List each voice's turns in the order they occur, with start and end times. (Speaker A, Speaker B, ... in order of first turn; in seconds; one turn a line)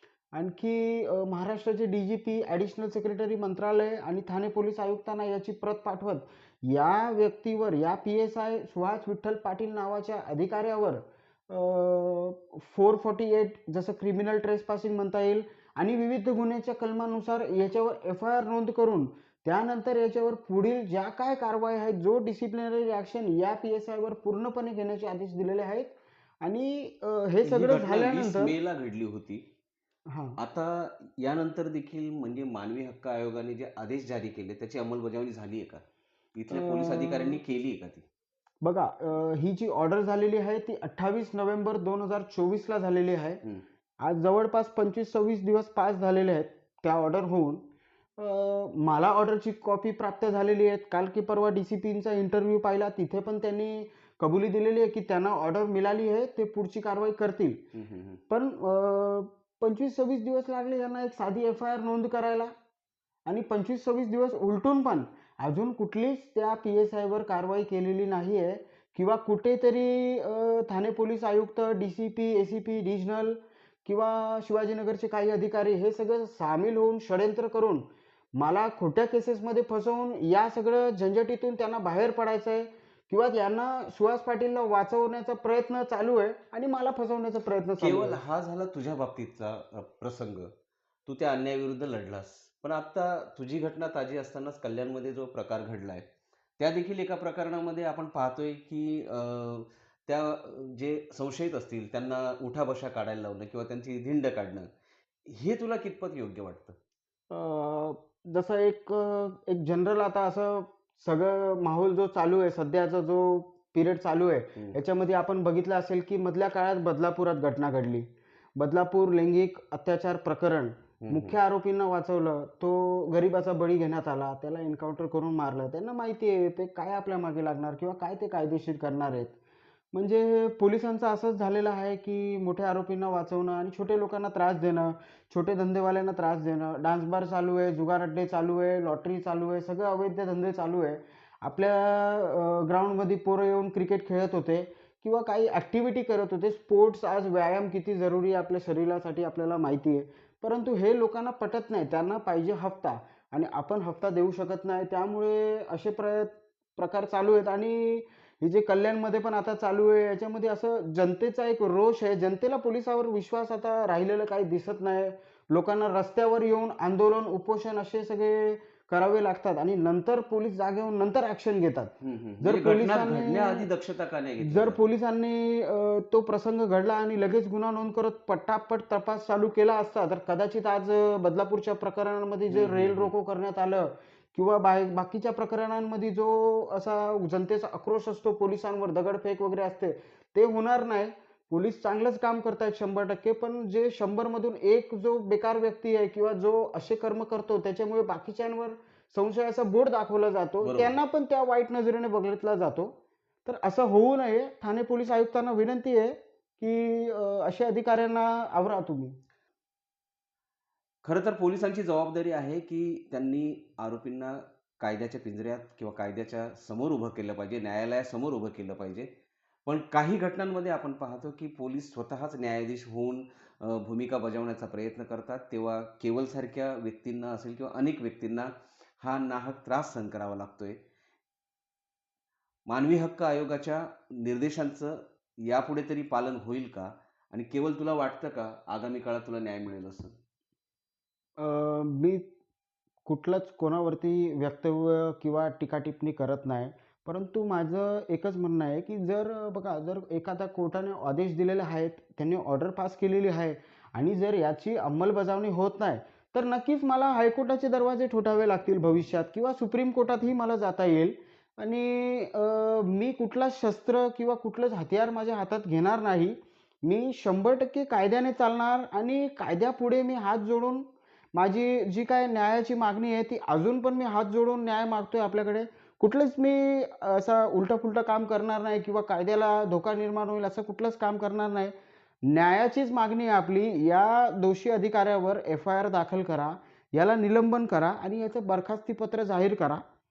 Speaker A: 0.3-28.5
Speaker B: 27.4-29.4
Speaker A: 30.1-30.4
Speaker B: 30.4-35.8
Speaker B: 36.3-38.0
Speaker A: 36.5-37.4
Speaker A: 38.6-43.4
Speaker A: 44.0-47.6
Speaker A: 48.2-57.6
Speaker B: 57.7-58.2
Speaker A: 58.3-62.5
Speaker A: 63.2-77.8
Speaker A: 78.4-88.2
Speaker B: 87.8-90.5
Speaker B: 91.0-96.0
Speaker B: 96.6-104.7
Speaker B: 105.3-106.8
Speaker A: 107.3-129.3
Speaker B: 121.0-121.3
Speaker A: 129.9-173.7
Speaker B: 172.0-174.8
Speaker A: 174.4-209.2
Speaker B: 182.5-183.1
Speaker B: 200.6-200.9
Speaker B: 211.0-219.1
Speaker B: 219.7-230.8
Speaker B: 232.7-240.2
Speaker A: 241.4-242.2
Speaker A: 243.1-289.8